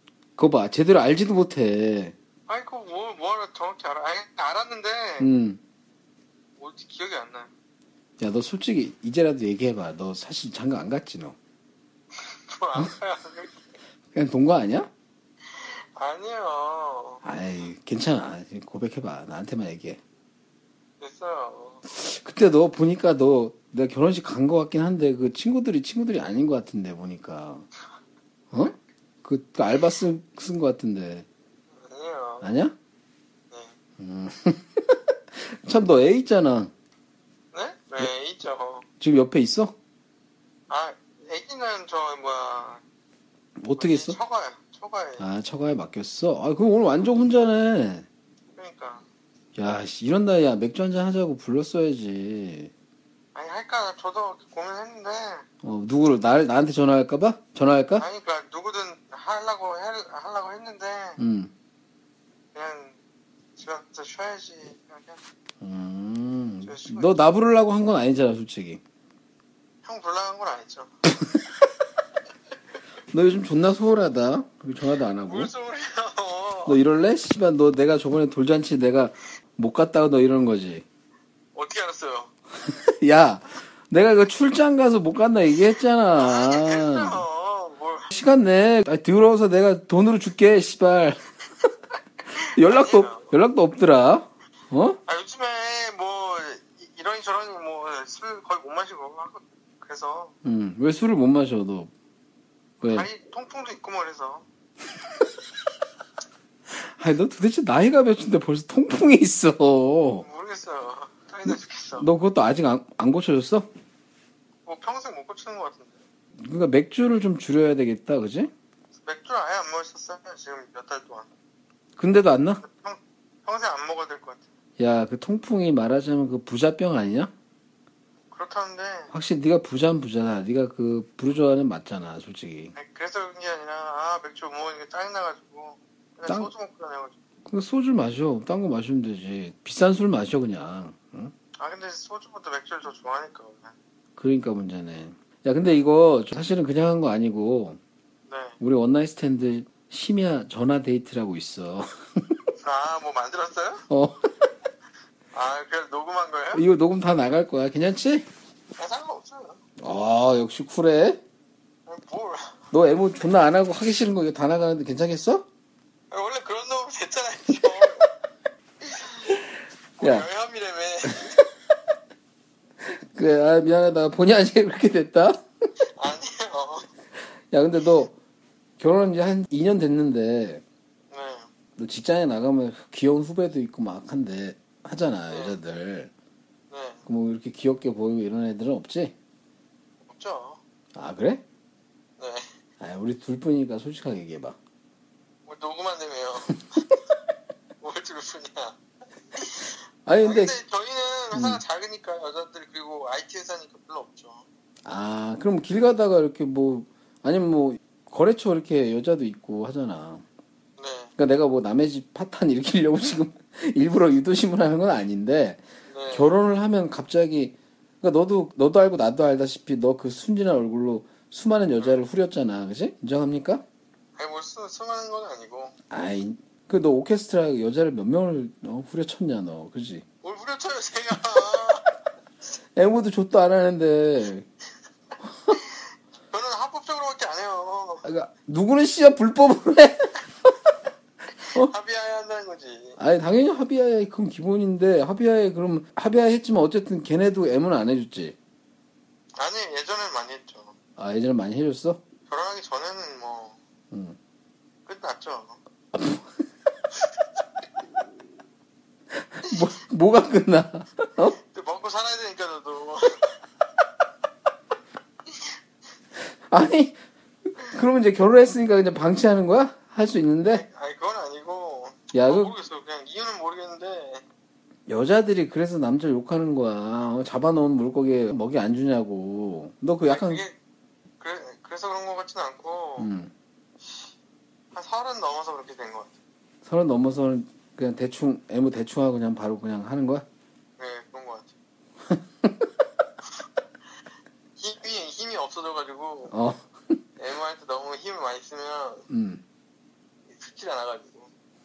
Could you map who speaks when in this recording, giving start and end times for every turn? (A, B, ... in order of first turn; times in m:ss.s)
0:00.4-0:02.1 A
0:02.5-0:05.3 B
0:05.2-0:05.6 A
0:06.6-0:07.5 B
0:08.2-0:11.4 A
0:12.2-0:13.6 B
0:14.1-0:14.9 A
0:15.5-0:17.2 B
0:17.2-0:20.0 A
0:21.0-0:21.8 B
0:21.9-0:27.6 A
0:28.5-0:31.2 A
0:31.8-0:32.5 B
0:32.4-0:32.7 A
0:33.5-0:33.8 B
0:34.0-0:36.7 A
0:37.5-0:38.8 B
0:39.0-0:39.7 A
0:40.7-0:42.8 B
0:43.6-0:44.2 A
0:43.8-0:45.3 B
0:45.2-0:48.0 A
0:48.6-0:49.0 B
0:49.5-0:52.7 A
0:53.3-0:55.4 B
0:55.6-0:58.0 A
0:58.0-1:01.2 B
1:01.2-1:01.5 A
1:02.5-1:03.0 B
1:03.6-1:05.2 B
1:05.6-1:08.8 A
1:06.6-1:07.2 B
1:09.8-1:10.9 B
1:13.1-1:15.5 A
1:15.2-1:16.8 B
1:16.6-1:20.8 A
1:21.5-1:22.3 B
1:22.6-1:27.2 A
1:26.2-1:28.1 B
1:28.1-1:31.2 A
1:32.3-1:33.3 B
1:32.5-1:35.0 A
1:35.0-1:40.3 B
1:40.4-1:41.9 A
1:42.8-1:43.1 A
1:42.9-1:44.4 B
1:46.7-1:50.2 A
1:50.2-1:52.1 B
1:52.0-1:53.7 A
1:54.6-1:56.0 B
1:56.4-1:58.5 A
1:59.0-2:01.3 B
2:02.0-2:02.6 A
2:02.6-2:04.4 B
2:04.8-2:07.3 A
2:08.3-2:09.1 B
2:09.1-2:12.7 A
2:12.7-2:17.1 B
2:17.5-2:21.3 A
2:21.6-2:23.7 B
2:24.2-2:27.8 A
2:28.3-2:28.6 B
2:28.6-2:32.0 A
2:32.6-2:33.8 B
2:33.9-2:34.2 A
2:35.3-2:36.6 B
2:36.5-2:38.2 A
2:38.8-2:39.6 B
2:39.8-2:41.2 A
2:41.9-2:42.5 B
2:42.7-2:45.4 A
2:46.1-2:48.1 B
2:48.8-2:49.4 B
2:50.0-2:51.4 B
2:50.0-2:50.3 A
2:52.8-2:55.4 A
2:55.8-2:56.9 B
2:57.5-2:58.1 A
2:58.8-3:00.6 A
3:01.1-3:01.5 B
3:01.8-3:06.1 A
3:05.3-3:05.6 B
3:06.7-3:07.0 B
3:07.0-3:09.1 A
3:10.1-3:10.6 B
3:10.9-3:11.4 A
3:12.2-3:12.5 B
3:12.8-3:14.6 A
3:15.4-3:16.8 B
3:17.8-3:18.8 B
3:19.3-3:24.4 B
3:20.0-3:20.6 A
3:21.3-3:21.6 A
3:24.8-3:30.2 A
3:30.8-3:31.1 B
3:31.2-3:43.6 A
3:35.9-3:36.3 B
3:44.2-3:45.7 B
3:45.9-3:50.0 A
3:50.2-3:51.8 B
3:52.8-3:54.4 A
3:56.3-3:58.0 B
3:58.0-4:00.2 A
4:01.4-4:03.0 B
4:03.0-4:08.4 A
4:09.4-4:10.7 B
4:11.0-4:12.0 A
4:12.3-4:13.6 B
4:13.9-4:14.2 A
4:14.8-4:15.6 B
4:15.9-4:16.2 A
4:19.3-4:21.4 A
4:21.4-4:23.4 B
4:26.2-4:27.0 A
4:27.6-4:30.6 A
4:30.5-4:34.2 B
4:32.1-4:32.5 A
4:34.9-4:40.4 A
4:40.1-4:40.6 B
4:41.2-4:43.1 B
4:43.0-4:43.3 A
4:43.8-4:44.1 B
4:44.7-4:46.1 B
4:46.6-4:50.2 A
4:50.8-4:51.5 B
4:52.1-4:52.5 A
4:54.6-4:56.3 B
4:56.3-4:57.0 A
4:57.2-4:59.0 B
4:59.1-4:59.4 A
5:00.3-5:01.3 B